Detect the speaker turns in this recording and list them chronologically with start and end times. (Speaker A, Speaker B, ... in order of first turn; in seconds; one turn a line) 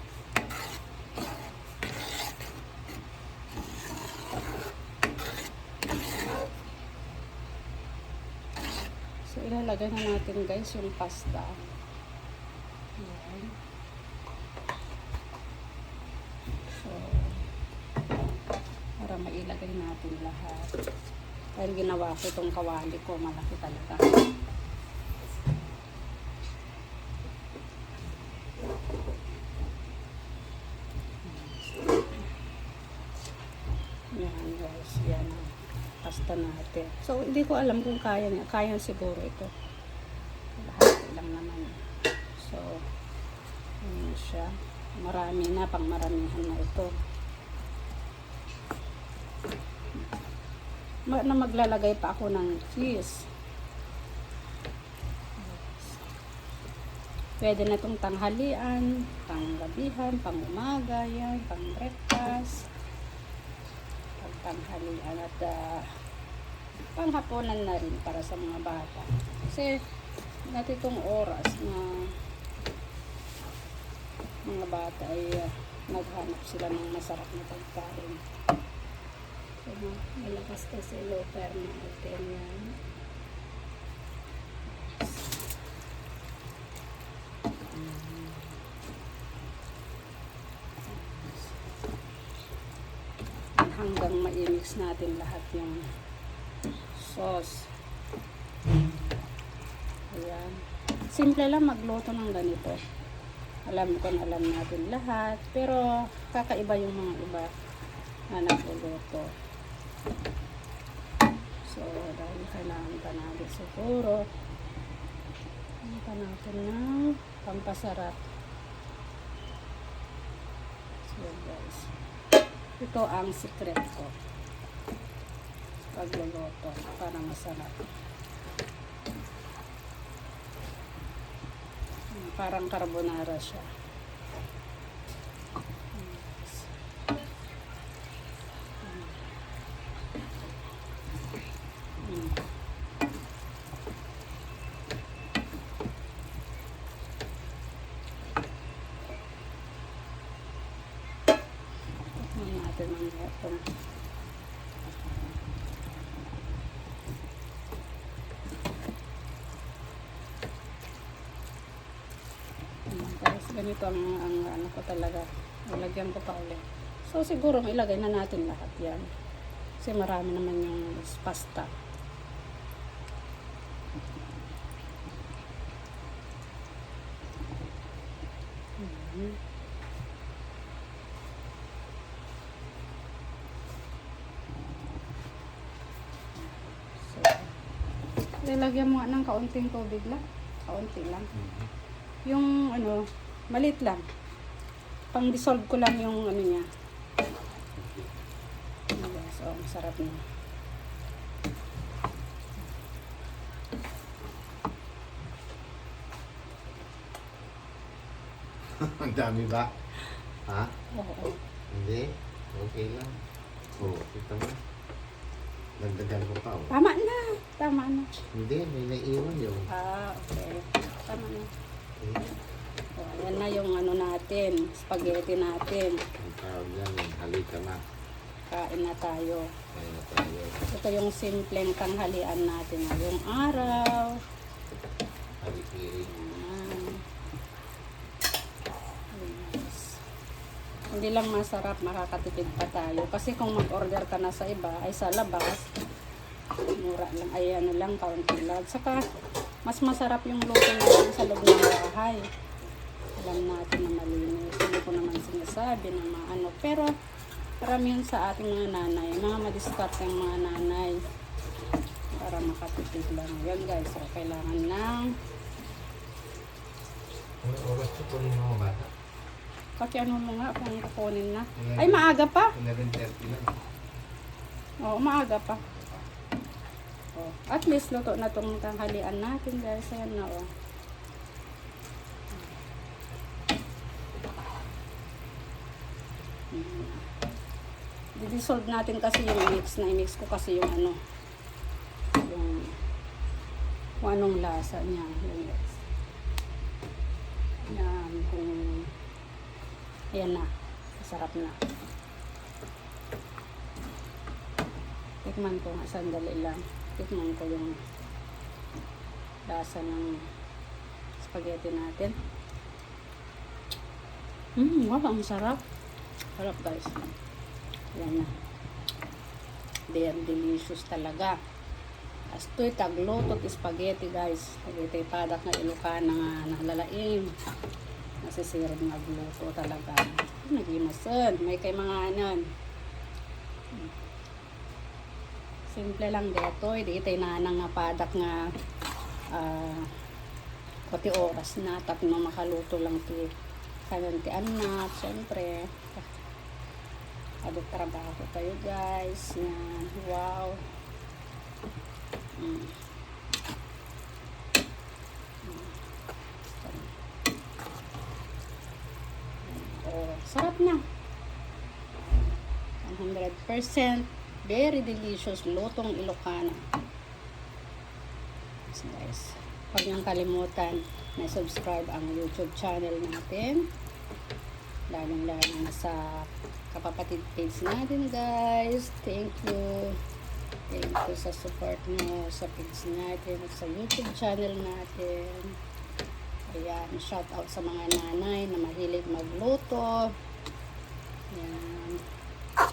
Speaker A: 9.3-11.6
Speaker A: 13.0-13.6
Speaker A: 16.8-17.4
Speaker A: 19.0-20.8
Speaker A: 21.6-24.2
Speaker A: 31.2-32.2
Speaker A: 34.1-39.5
Speaker A: 40.6-41.8
Speaker A: 42.4-42.9
Speaker A: 43.8-46.9
Speaker A: 51.1-53.3
Speaker A: 55.4-56.0
Speaker A: 57.4-62.7
Speaker A: 64.2-65.9
Speaker A: 67.0-69.8
Speaker A: 70.5-72.2
Speaker A: 74.5-78.2
Speaker A: 79.6-82.8
Speaker A: 84.7-85.4
Speaker A: 87.7-88.6
Speaker A: 90.9-91.6
Speaker A: 93.6-95.9
Speaker A: 96.9-97.7
Speaker A: 100.1-102.8
Speaker A: 103.7-107.5
Speaker A: 108.3-109.3
Speaker A: 111.7-114.3
Speaker A: 115.8-118.2
Speaker A: 121.1-121.9
Speaker A: 122.8-124.2
Speaker A: 125.9-127.9
Speaker A: 132.1-133.7
Speaker A: 135.9-136.7
Speaker A: 138.8-139.2
Speaker A: 142.0-142.4
Speaker A: 152.2-153.7
Speaker A: 162.9-169.1
Speaker A: 169.8-171.7
Speaker A: 178.8-179.4
Speaker A: 187.0-187.5
Speaker A: 188.4-191.3
Speaker B: 191.3-191.7
Speaker A: 192.3-194.1
Speaker A: 195.1-196.7
Speaker B: 197.8-198.1
Speaker A: 198.9-200.2
Speaker B: 208.8-209.7
Speaker B: 210.5-210.7
Speaker A: 210.9-211.4
Speaker B: 211.7-213.2
Speaker B: 213.7-214.6
Speaker B: 215.8-216.7
Speaker A: 216.7-218.1
Speaker B: 218.3-219.7
Speaker A: 219.7-221.5
Speaker B: 222.0-222.3
Speaker A: 223.0-226.0
Speaker B: 226.2-227.8
Speaker A: 228.5-229.6
Speaker B: 229.7-230.6
Speaker A: 230.7-234.2
Speaker B: 235.4-236.1
Speaker A: 236.1-237.0
Speaker A: 239.1-240.0
Speaker A: 240.9-245.7
Speaker A: 246.8-249.0
Speaker A: 249.7-252.3
Speaker A: 253.2-256.9
Speaker A: 257.6-261.0
Speaker A: 262.2-265.1
Speaker B: 267.4-268.9
Speaker A: 269.8-272.6
Speaker B: 271.6-273.5
Speaker A: 274.8-275.6
Speaker A: 277.2-280.5
Speaker A: 286.5-287.1
Speaker A: 288.1-291.0
Speaker A: 292.2-292.8
Speaker A: 294.0-295.8
Speaker A: 297.6-298.9
Speaker A: 300.1-301.6
Speaker A: 305.2-307.8
Speaker A: 309.5-310.2
Speaker A: 311.2-312.1
Speaker A: 314.6-315.6
Speaker A: 316.4-317.1
Speaker A: 317.9-318.3
Speaker A: 319.9-321.4
Speaker A: 322.3-327.3
Speaker A: 328.2-332.5
Speaker A: 335.7-338.5
Speaker A: 339.3-339.9
Speaker A: 340.9-343.3
Speaker A: 343.9-346.1
Speaker A: 347.4-350.6
Speaker A: 352.4-352.8
Speaker A: 355.4-355.8
Speaker A: 356.5-356.9
Speaker A: 359.4-360.8
Speaker A: 362.8-366.7
Speaker A: 368.7-373.7
Speaker A: 374.9-380.0
Speaker A: 380.7-385.6
Speaker A: 386.5-390.1
Speaker A: 391.3-392.1